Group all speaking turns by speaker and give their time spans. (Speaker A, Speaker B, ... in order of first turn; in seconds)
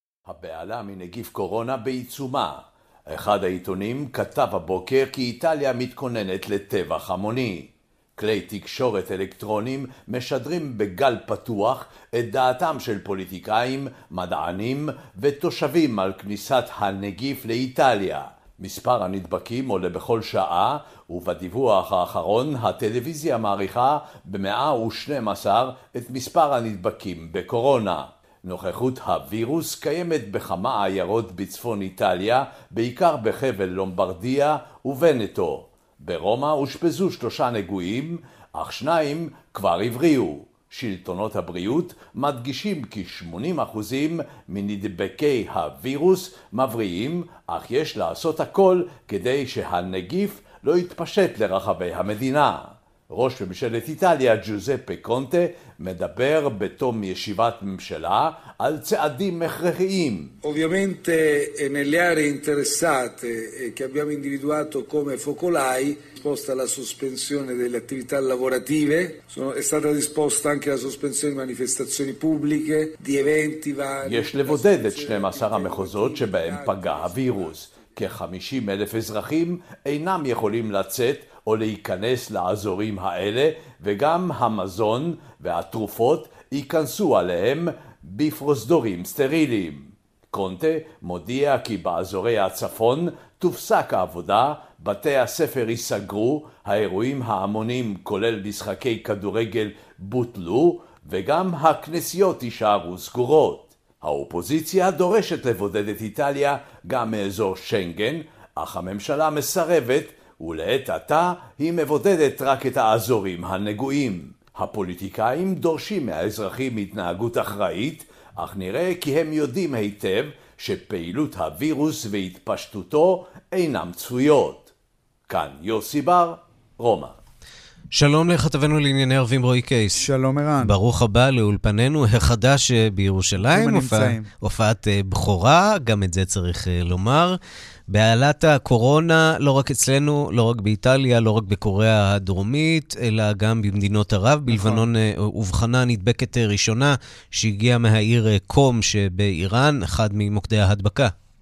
Speaker A: 0.2-60.3, 74.0-124.7, 125.3-127.1
Speaker B: 60.4-77.5
Speaker C: 127.9-130.0, 130.6-137.4, 137.9-151.1
Speaker D: 129.9-130.7, 133.4-134.3, 144.5-144.8